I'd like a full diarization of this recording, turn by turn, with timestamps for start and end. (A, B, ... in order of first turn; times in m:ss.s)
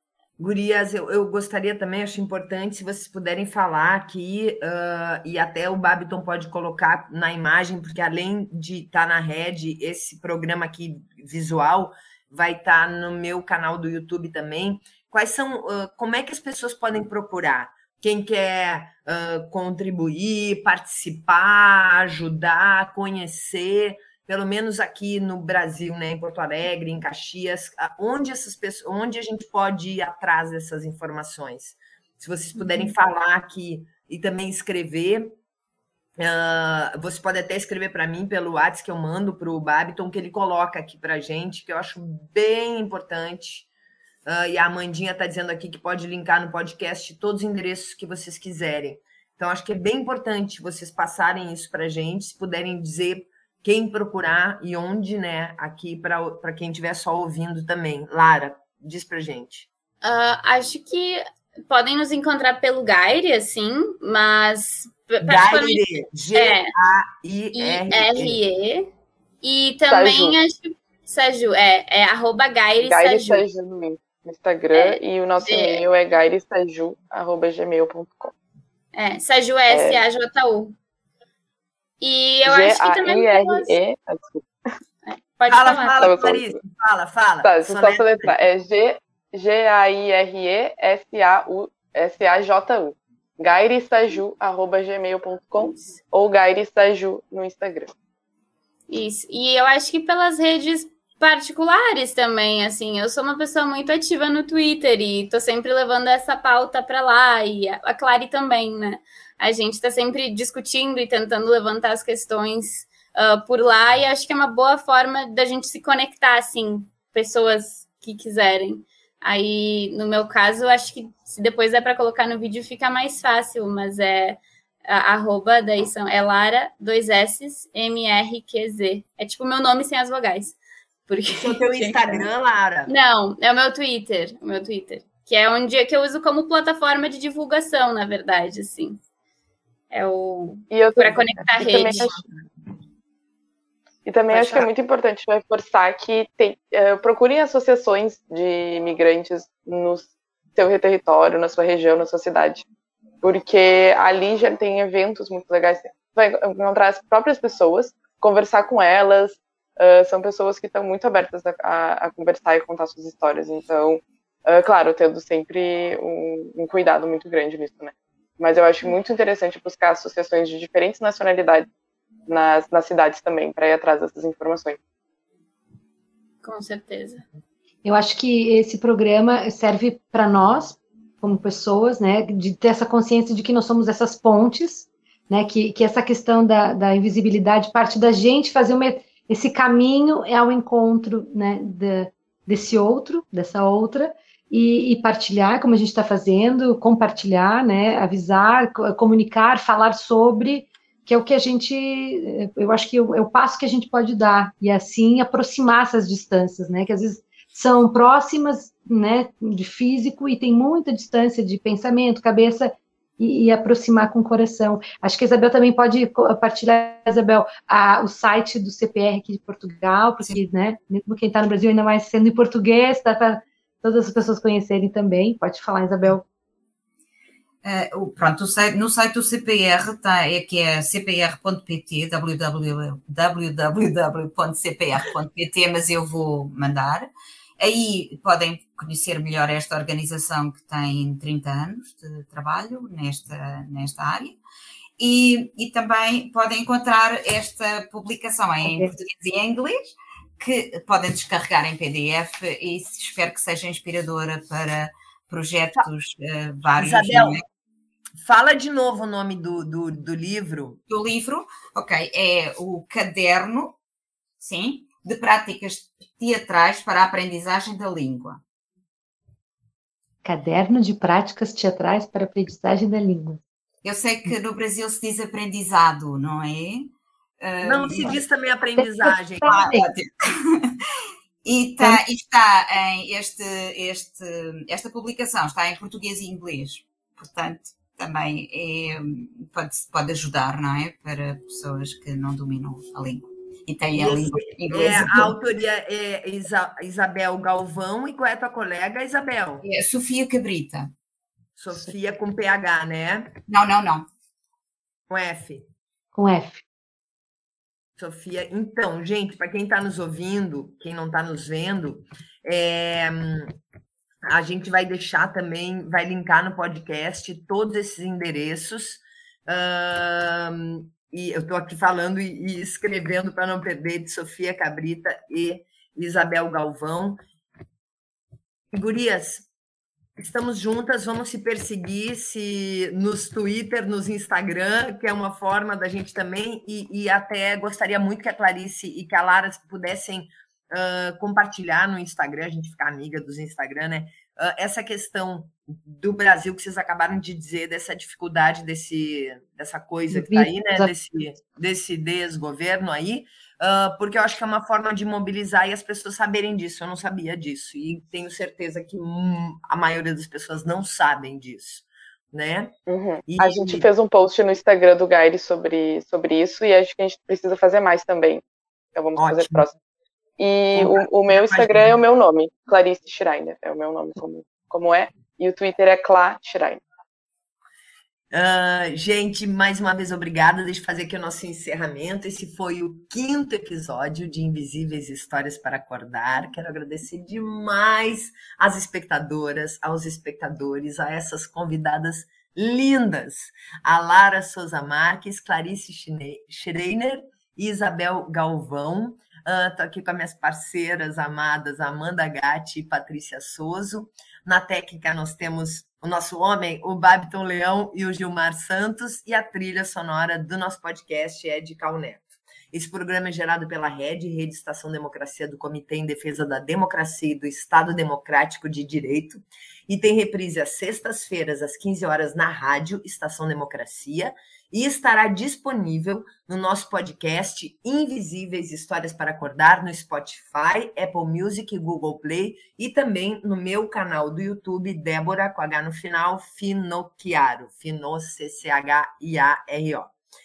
0:00.4-0:35.4 A
0:32.6-0:32.9 B
0:36.2-0:43.7 A
0:44.2-0:59.7 A
1:00.0-1:06.7 C
1:05.2-1:08.4 A
1:07.5-1:08.9 C
1:09.4-1:13.4 C
1:09.9-1:10.4 D
1:12.8-1:18.3 D
1:14.7-1:15.8 C
1:18.9-1:20.7 C
1:19.7-1:20.0 D
1:22.0-1:23.8 C
1:22.4-1:24.8 D
1:25.0-1:26.2 C
1:25.5-1:28.4 A
1:26.0-1:26.5 D
1:27.4-1:37.9 D
1:38.9-2:10.6 C
2:11.1-2:12.3 C
2:11.4-2:12.9 A
2:12.9-2:19.0 C
2:19.9-2:22.2 C
2:20.7-2:22.2 D
2:24.0-2:32.6 D
2:33.2-2:51.7 D
2:52.3-2:54.8 D
2:56.4-2:57.2 C
2:57.8-3:46.2 B
3:47.6-4:04.4 E
4:05.0-4:17.4 E
4:08.6-4:08.9 B
4:16.8-4:17.4 A
4:18.2-4:20.8 A
4:20.9-4:23.8 E
4:24.4-4:28.4 E
4:30.2-4:33.4 B
4:33.8-4:38.2 E
4:37.6-4:39.8 A
4:38.8-4:39.9 B
4:39.4-4:40.8 E
4:41.4-4:55.3 E
4:54.0-4:59.6 A
4:59.6-5:00.9 E
5:01.6-5:03.4 A
5:03.5-5:04.1 E
5:05.1-5:05.7 A
5:06.1-5:06.6 B
5:08.0-5:13.5 A
5:14.2-5:27.2 A
5:28.7-5:29.5 A
5:30.2-6:03.9 A
5:50.1-5:50.9 B
6:02.9-6:08.4 D
6:08.9-6:09.7 D
6:09.2-6:09.6 A
6:10.4-6:16.8 D
6:10.7-6:12.0 A
6:18.3-7:20.1 A